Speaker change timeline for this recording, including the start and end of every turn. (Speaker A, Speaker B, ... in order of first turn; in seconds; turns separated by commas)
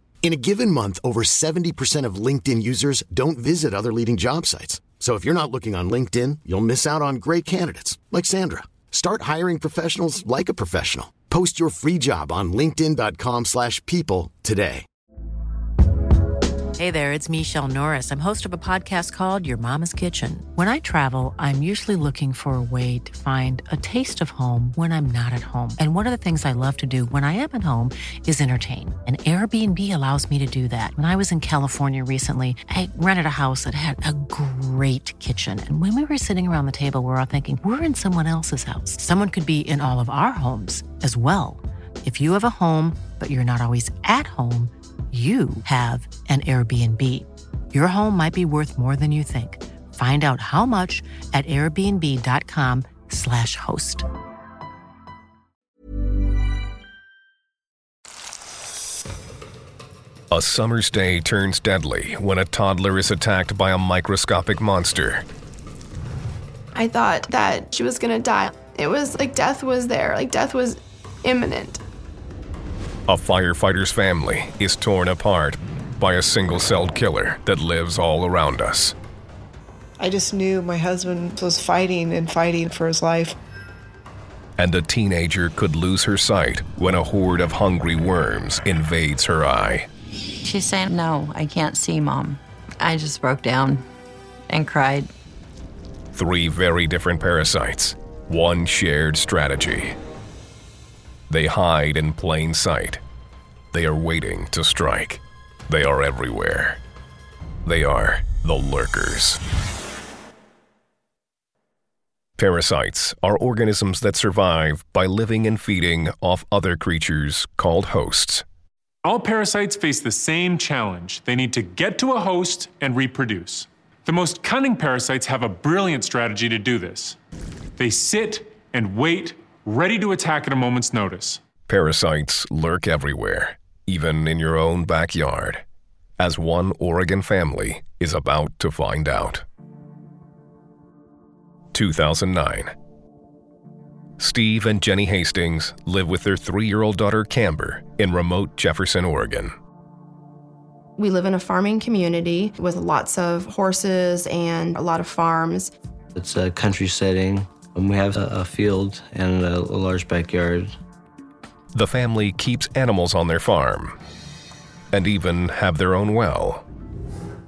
Speaker A: 0.2-14.8, Speaker B: 16.8-54.1, Speaker C: 60.3-65.2, Speaker D: 66.7-71.8, Speaker C: 73.1-79.0, Speaker E: 80.0-83.4, Speaker C: 84.6-89.9, Speaker F: 90.4-93.8, Speaker F: 94.5-95.1, Speaker C: 96.1-100.0, Speaker C: 101.3-103.0, Speaker C: 103.7-106.8, Speaker C: 107.7-109.4, Speaker C: 112.4-118.4, Speaker G: 119.0-127.2, Speaker G: 127.8-131.4, Speaker C: 131.7-135.6, Speaker C: 136.2-139.4, Speaker C: 141.7-142.7, Speaker C: 144.2-149.5, Speaker D: 151.0-155.7, Speaker H: 156.2-160.8, Speaker C: 161.7-164.0, Speaker C: 164.9-166.6